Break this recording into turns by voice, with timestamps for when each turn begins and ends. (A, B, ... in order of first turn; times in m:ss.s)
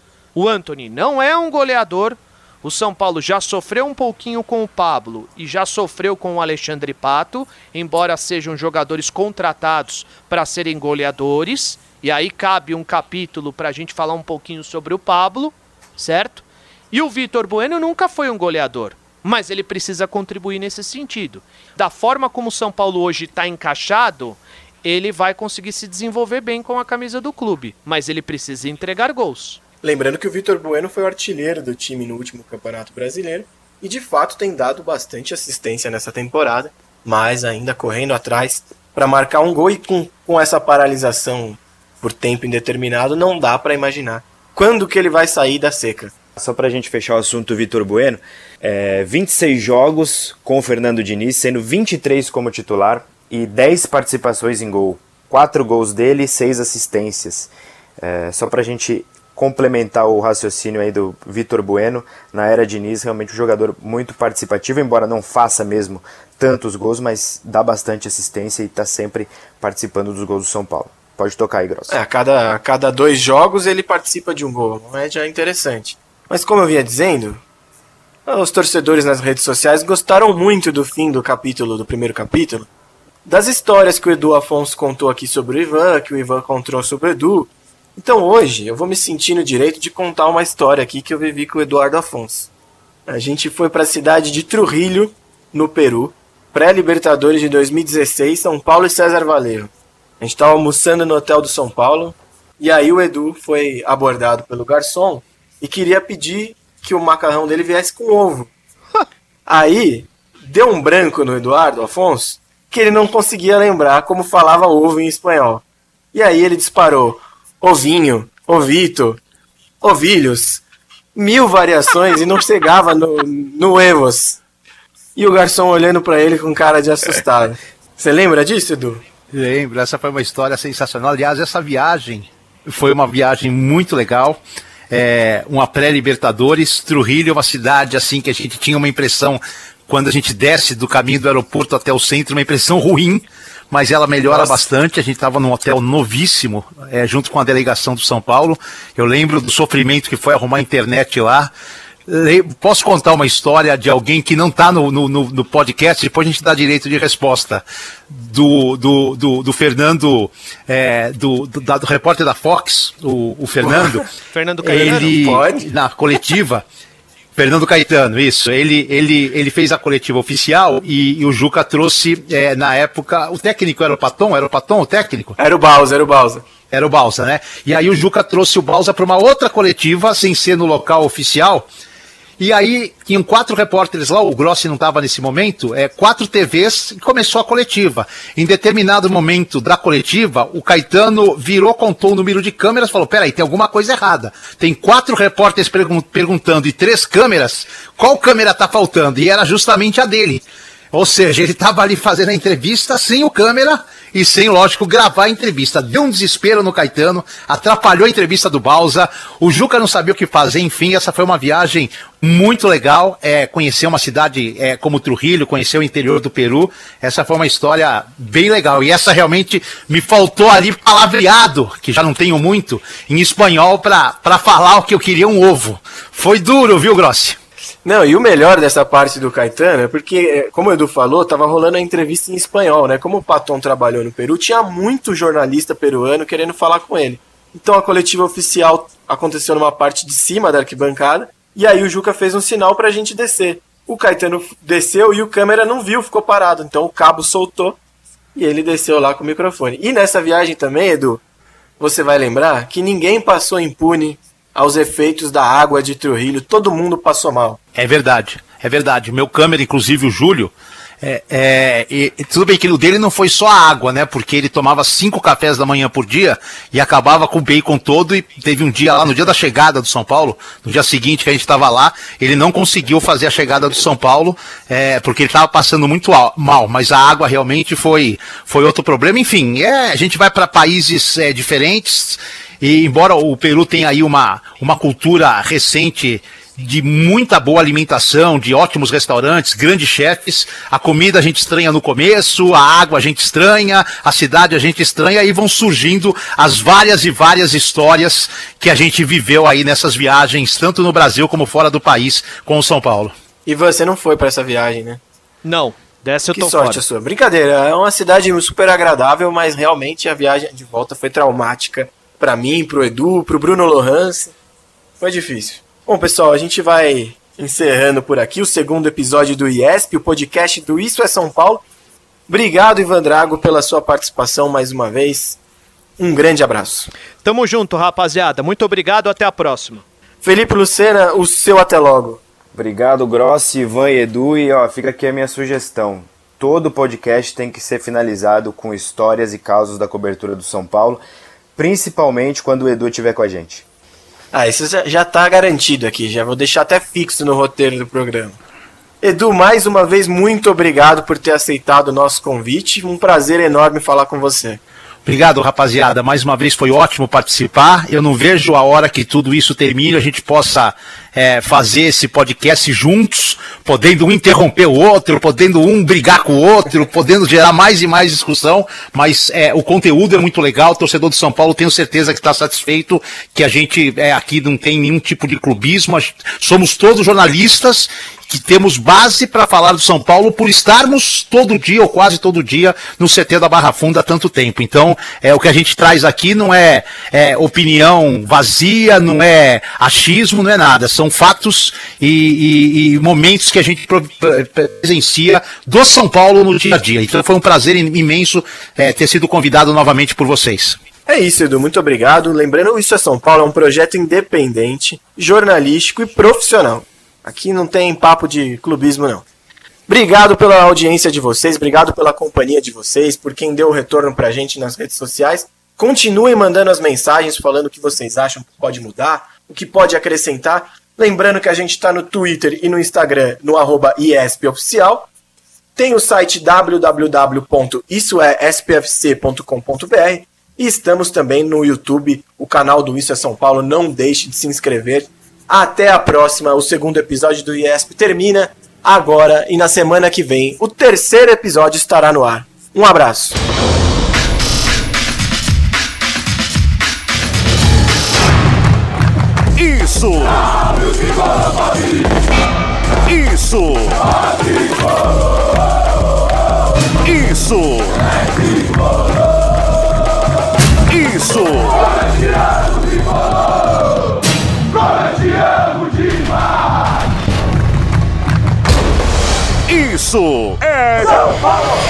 0:00.3-0:29.6 A
0:29.8-0:46.1 B
0:46.4-1:12.0 C
1:11.9-1:17.4 B
1:18.2-1:22.7 B
1:23.2-1:32.5 B
1:33.1-1:48.5 B
1:49.4-1:59.2 B
1:59.8-2:00.6 B
2:01.1-2:04.4 B
2:05.2-2:09.0 B
2:09.3-2:14.4 D
2:14.9-2:31.5 D
2:24.3-2:24.6 B
2:32.1-2:44.1 D
2:43.6-2:44.0 B
2:44.3-2:45.2 A
2:44.6-2:46.6 D
2:45.1-2:45.6 B
2:47.4-2:55.4 D
2:55.4-2:56.4 B
2:56.7-3:01.7 D
3:02.4-3:47.4 D
3:47.8-4:07.8 B
4:08.3-4:11.2 B
4:11.8-4:17.6 B
4:17.7-5:03.1 D
5:03.4-5:05.0 B
5:05.4-5:06.8 A
5:06.3-5:14.3 B
5:15.0-5:21.6 B
5:22.3-5:25.4 B
5:26.0-5:26.9 B
5:27.2-5:29.8 A
5:30.2-5:32.2 B
5:32.5-5:41.0 C
5:41.6-5:43.6 C
5:44.3-5:48.4 B
5:49.0-5:54.6 B
5:55.0-6:40.8 D
6:41.1-6:49.2 B
6:49.9-7:05.1 B
7:05.8-7:23.4 B
7:29.5-7:30.7 E
7:33.0-7:34.2 E
7:37.0-7:38.2 E
7:40.9-7:42.1 E
7:49.7-7:51.6 E